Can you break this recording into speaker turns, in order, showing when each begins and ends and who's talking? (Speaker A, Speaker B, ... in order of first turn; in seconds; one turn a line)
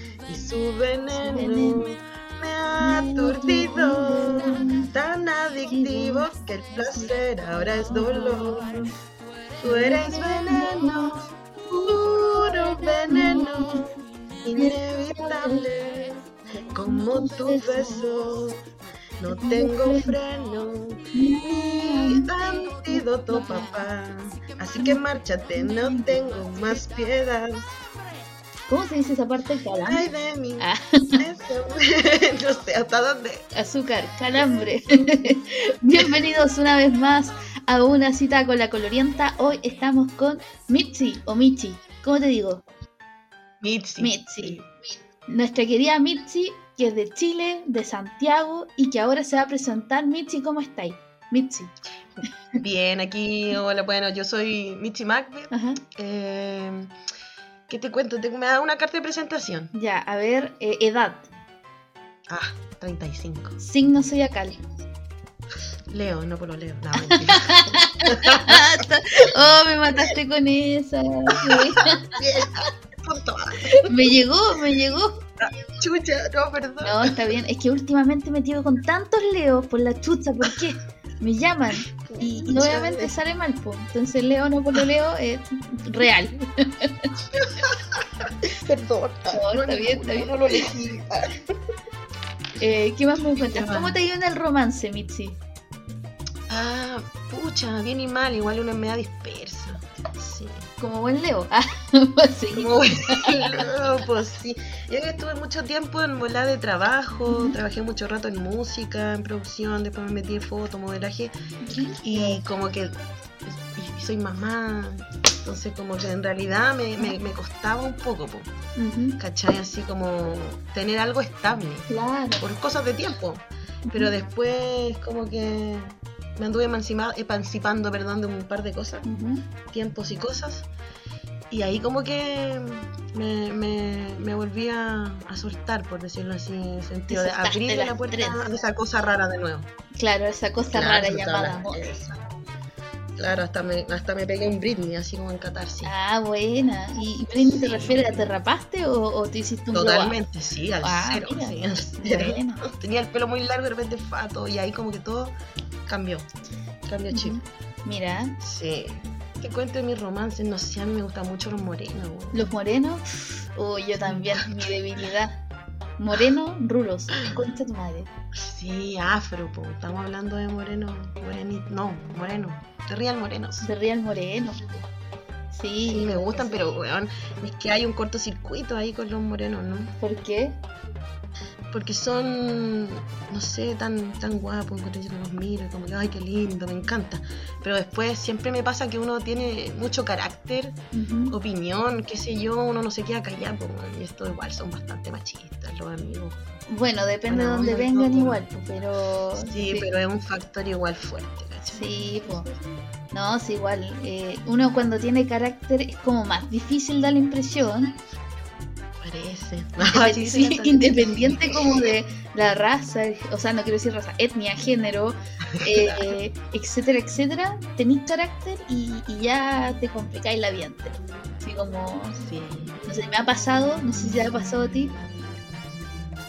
Speaker A: 0.3-8.9
Speaker B: 1.2-1.9
Speaker B: 2.8-4.8
Speaker B: 5.7-6.3
Speaker B: 7.6-8.5
Speaker A: 9.6-13.9
Speaker B: 9.6-11.1
Speaker B: 13.1-13.8
Speaker A: 14.4-16.2
Speaker B: 14.6-15.6
Speaker B: 16.6-18.0
Speaker A: 16.7-18.6
Speaker A: 19.2-27.7
Speaker B: 19.3-20.2
Speaker B: 21.1-23.7
Speaker B: 25.6-26.2
Speaker B: 28.7-30.1
Speaker A: 29.8-30.7
Speaker B: 30.6-31.2
Speaker A: 31.2-33.5
Speaker B: 33.5-42.7
Speaker A: 43.6-44.7
Speaker B: 44.0-44.7
Speaker B: 45.3-51.7
Speaker A: 52.6-56.9
Speaker B: 55.5-55.8
Speaker A: 57.7-59.7
Speaker B: 59.7-61.3
Speaker A: 62.3-63.6
Speaker B: 63.6-64.6
Speaker A: 65.9-68.8
Speaker B: 67.0-72.1
Speaker A: 71.5-73.9
Speaker B: 73.8-75.2
Speaker A: 75.4-77.1
Speaker B: 76.8-87.1
Speaker A: 82.0-83.1
Speaker A: 87.3-91.6
Speaker B: 89.3-90.7
Speaker B: 92.6-95.4
Speaker A: 93.4-94.0
Speaker A: 96.5-100.7
Speaker B: 100.8-103.7
Speaker A: 102.5-111.3
Speaker B: 107.3-107.6
Speaker B: 111.6-112.4
Speaker A: 112.0-112.9
Speaker A: 113.4-118.5
Speaker B: 118.8-119.2
Speaker A: 119.2-129.1
Speaker B: 121.9-122.4
Speaker B: 123.9-124.1
Speaker B: 129.1-129.4
Speaker A: 129.7-130.7
Speaker A: 131.5-139.7
Speaker B: 137.1-138.4
Speaker B: 139.9-141.9
Speaker A: 140.6-142.3
Speaker A: 143.2-145.9
Speaker B: 145.8-150.2
Speaker A: 147.4-148.3
Speaker A: 149.7-156.3
Speaker B: 150.8-152.6
Speaker A: 156.9-157.4
Speaker B: 157.1-158.4
Speaker A: 158.4-162.6
Speaker B: 162.3-165.4
Speaker A: 164.1-164.5
Speaker B: 166.0-168.1
Speaker A: 167.2-167.5
Speaker A: 168.3-173.7
Speaker B: 173.6-174.6
Speaker B: 175.5-176.8
Speaker A: 175.9-179.9
Speaker B: 180.0-180.6
Speaker A: 181.7-190.8
Speaker B: 190.9-191.4
Speaker A: 191.3-196.4
Speaker B: 196.7-199.9
Speaker A: 197.3-198.4
Speaker A: 199.3-202.8
Speaker B: 201.7-202.5
Speaker B: 203.1-207.9
Speaker A: 209.0-211.7
Speaker B: 209.8-222.2
Speaker A: 215.6-216.2
Speaker A: 222.2-222.8
Speaker B: 222.9-224.9